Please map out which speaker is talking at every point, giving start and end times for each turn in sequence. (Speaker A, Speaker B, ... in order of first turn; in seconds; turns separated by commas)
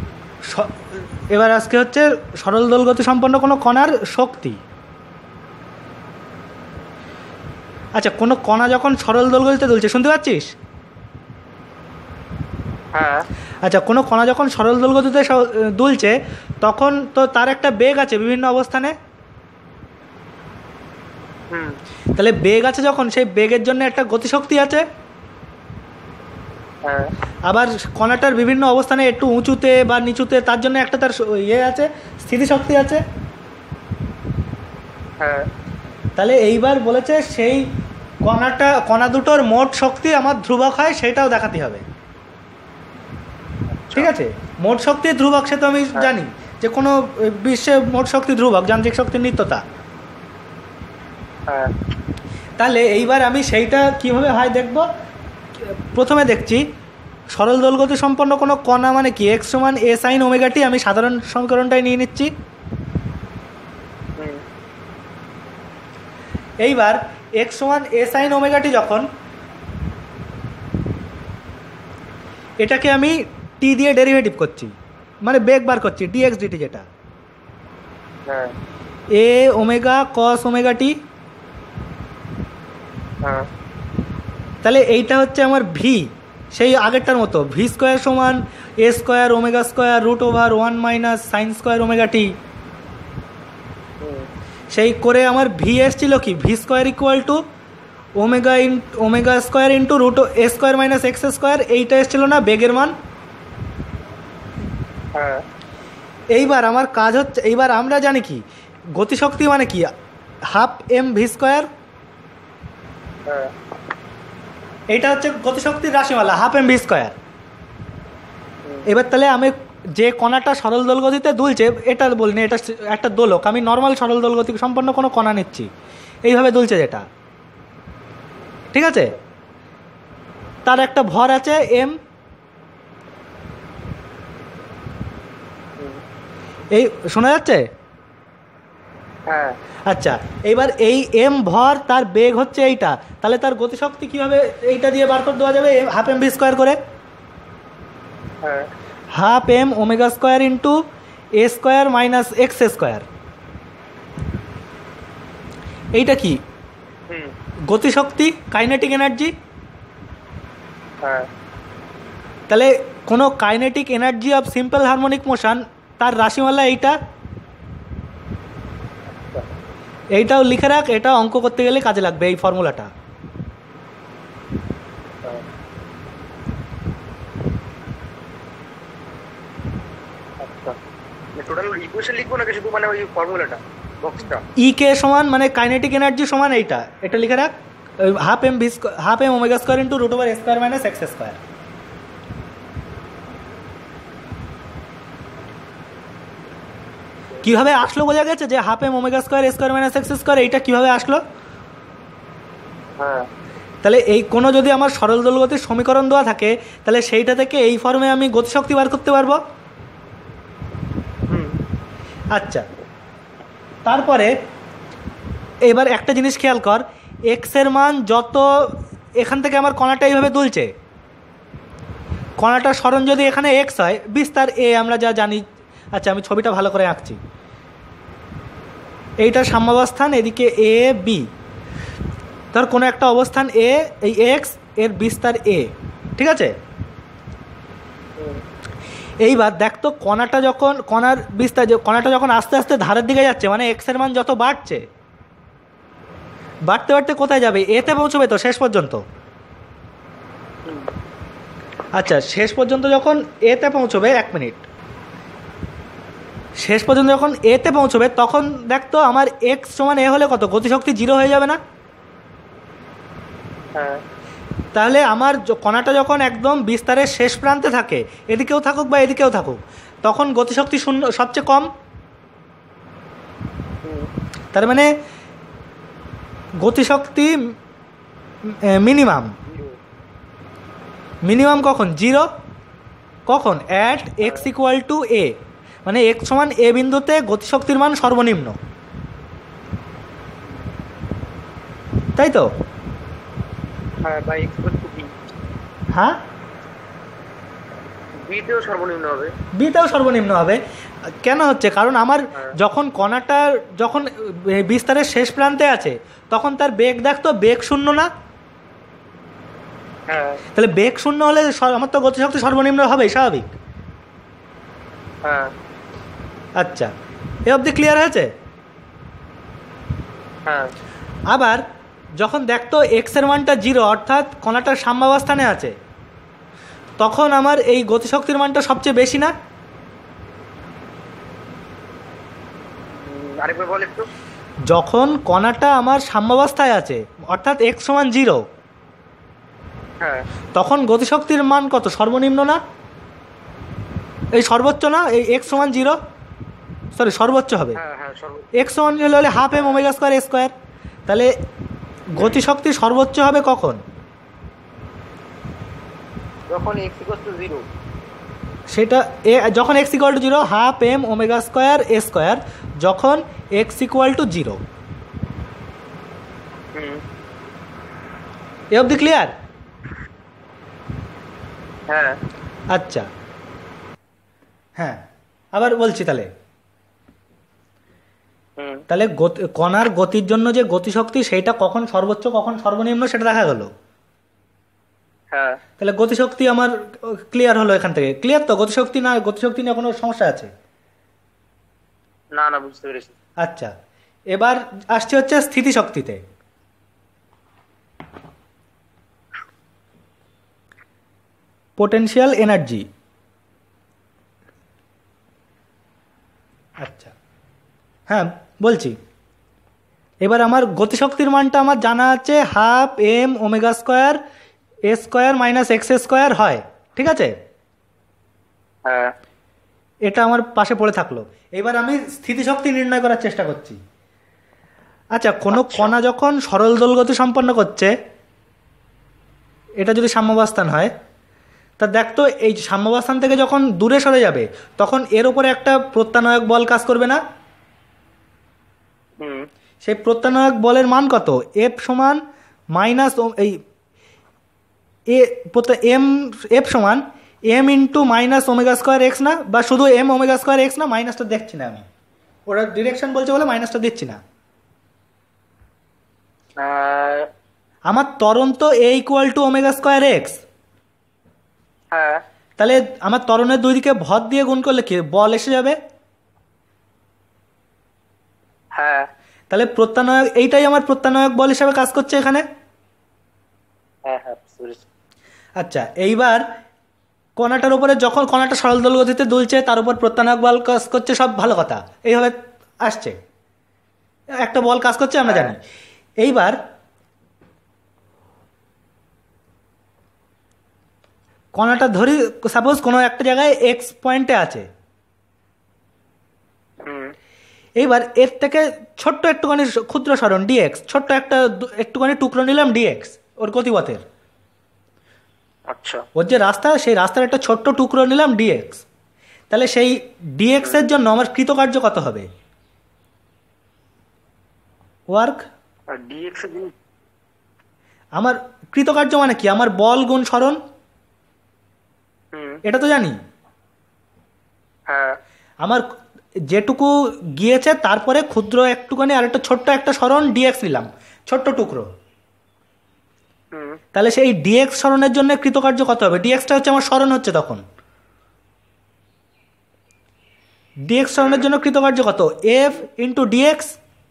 Speaker A: 0.4-4.6, Speaker A: 8.0-10.5, Speaker B: 12.9-13.3, Speaker A: 13.6-18.9, Speaker B: 21.5-21.8, Speaker A: 22.1-24.8, Speaker B: 26.8-27.1, Speaker A: 27.5-33.0, Speaker B: 35.2-35.5, Speaker A: 36.2-37.6, Speaker A: 38.2-41.8, Speaker B: 43.7-44.1, Speaker A: 43.9-49.6, Speaker B: 51.5-51.7, Speaker A: 52.6-54.9, Speaker A: 55.6-56.6, Speaker A: 57.3-62.3, Speaker B: 64.2-64.4, Speaker A: 66.6-69.0, Speaker A: 72.6-74.7, Speaker A: 75.2-76.8, Speaker B: 78.2-78.5, Speaker A: 79.1-81.0, Speaker B: 83.2-83.5, Speaker A: 84.6-92.3, Speaker B: 94.0-94.3, Speaker A: 94.7-97.4, Speaker A: 98.2-102.9, Speaker B: 105.1-105.4, Speaker A: 106.3-108.4, Speaker A: 108.9-109.9, Speaker A: 110.5-111.7, Speaker B: 113.2-113.5, Speaker A: 114.9-117.2, Speaker A: 118.9-125.7, Speaker A: 126.2-127.0, Speaker A: 128.7-129.2, Speaker A: 130.6-131.9, Speaker A: 136.7-137.7, Speaker B: 139.3-139.6, Speaker A: 139.9-146.8, Speaker B: 148.4-148.7, Speaker A: 149.1-150.8, Speaker A: 151.4-153.1, Speaker A: 155.9-156.4, Speaker B: 157.1-157.3, Speaker A: 157.7-159.3, Speaker B: 161.0-161.3, Speaker A: 162.5-167.0, Speaker B: 169.1-169.5, Speaker A: 170.1-172.9, Speaker B: 180.4-180.8, Speaker B: 181.3-184.4, Speaker A: 184.6-191.4, Speaker A: 197.4-201.2, Speaker B: 203.0-203.3, Speaker A: 203.8-209.4, Speaker B: 211.3-211.6, Speaker A: 212.3-212.7, Speaker A: 213.8-214.3, Speaker A: 215.7-220.7, Speaker A: 222.4-227.2, Speaker A: 229.2-231.3, Speaker A: 232.5-236.5, Speaker B: 238.2-238.4, Speaker A: 239.2-244.8, Speaker A: 246.7-249.0, Speaker B: 250.6-250.9, Speaker A: 251.9-254.6, Speaker A: 256.6-261.6, Speaker B: 263.7-264.0, Speaker A: 264.7-271.7, Speaker B: 273.8-274.1, Speaker A: 274.5-274.9, Speaker A: 276.6-277.5, Speaker A: 278.4-279.4, Speaker B: 279.4-279.8, Speaker A: 281.2-282.3, Speaker A: 283.3-288.6, Speaker B: 284.2-284.5, Speaker A: 292.2-292.5, Speaker B: 294.0-295.2, Speaker A: 295.9-296.2, Speaker B: 298.1-299.3, Speaker A: 299.6-300.6, Speaker A: 301.2-308.1, Speaker B: 310.1-310.4, Speaker A: 310.5-313.5, Speaker B: 315.2-315.5, Speaker A: 316.6-316.9, Speaker A: 317.4-318.3, Speaker B: 320.4-320.7, Speaker A: 321.3-321.6, Speaker A: 322.2-325.7, Speaker A: 327.0-329.3, Speaker B: 332.9-334.1, Speaker A: 334.7-338.4, Speaker B: 340.0-340.3, Speaker A: 340.5-342.6, Speaker A: 344.3-346.0, Speaker B: 345.6-345.9, Speaker A: 346.9-347.8, Speaker B: 347.7-348.5, Speaker A: 348.6-350.5, Speaker B: 349.5-349.8, Speaker A: 352.1-353.8, Speaker B: 356.5-357.7, Speaker A: 358.7-364.6, Speaker B: 366.7-367.0, Speaker A: 368.7-369.3, Speaker B: 371.9-372.2, Speaker A: 372.7-373.1, Speaker A: 375.5-376.3, Speaker B: 378.6-378.8, Speaker A: 378.9-383.7, Speaker B: 385.3-385.6, Speaker A: 385.8-390.5, Speaker B: 392.3-393.1, Speaker A: 393.4-393.7, Speaker A: 394.3-396.2, Speaker A: 401.8-402.9, Speaker A: 406.8-407.1, Speaker A: 408.1-408.9, Speaker A: 410.2-414.2, Speaker A: 414.9-417.3, Speaker B: 418.8-419.1, Speaker A: 420.0-423.8, Speaker A: 425.1-427.9, Speaker B: 425.5-425.9, Speaker A: 429.8-430.9, Speaker A: 431.8-437.2, Speaker B: 439.2-439.5, Speaker A: 439.8-442.2, Speaker A: 442.7-443.6, Speaker A: 445.1-451.8, Speaker A: 452.5-454.2, Speaker B: 456.6-457.3, Speaker A: 457.9-460.4, Speaker B: 461.9-462.2, Speaker A: 462.6-465.8, Speaker B: 468.7-469.1, Speaker A: 469.5-472.4, Speaker B: 474.1-474.8, Speaker A: 475.6-476.4, Speaker A: 477.4-483.1, Speaker A: 484.4-485.6, Speaker B: 485.2-485.5, Speaker A: 486.2-486.6, Speaker A: 491.5-494.7, Speaker B: 496.8-497.1, Speaker A: 497.8-504.0, Speaker B: 505.7-506.1, Speaker A: 506.1-508.8, Speaker A: 509.5-512.2, Speaker B: 510.6-510.9, Speaker A: 515.1-515.4, Speaker B: 515.9-516.7, Speaker A: 518.2-520.6, Speaker B: 522.3-522.6, Speaker A: 522.6-523.2, Speaker B: 524.9-525.2, Speaker A: 526.5-531.9, Speaker B: 533.5-533.8, Speaker A: 533.9-537.6, Speaker A: 540.9-543.8, Speaker B: 541.2-541.5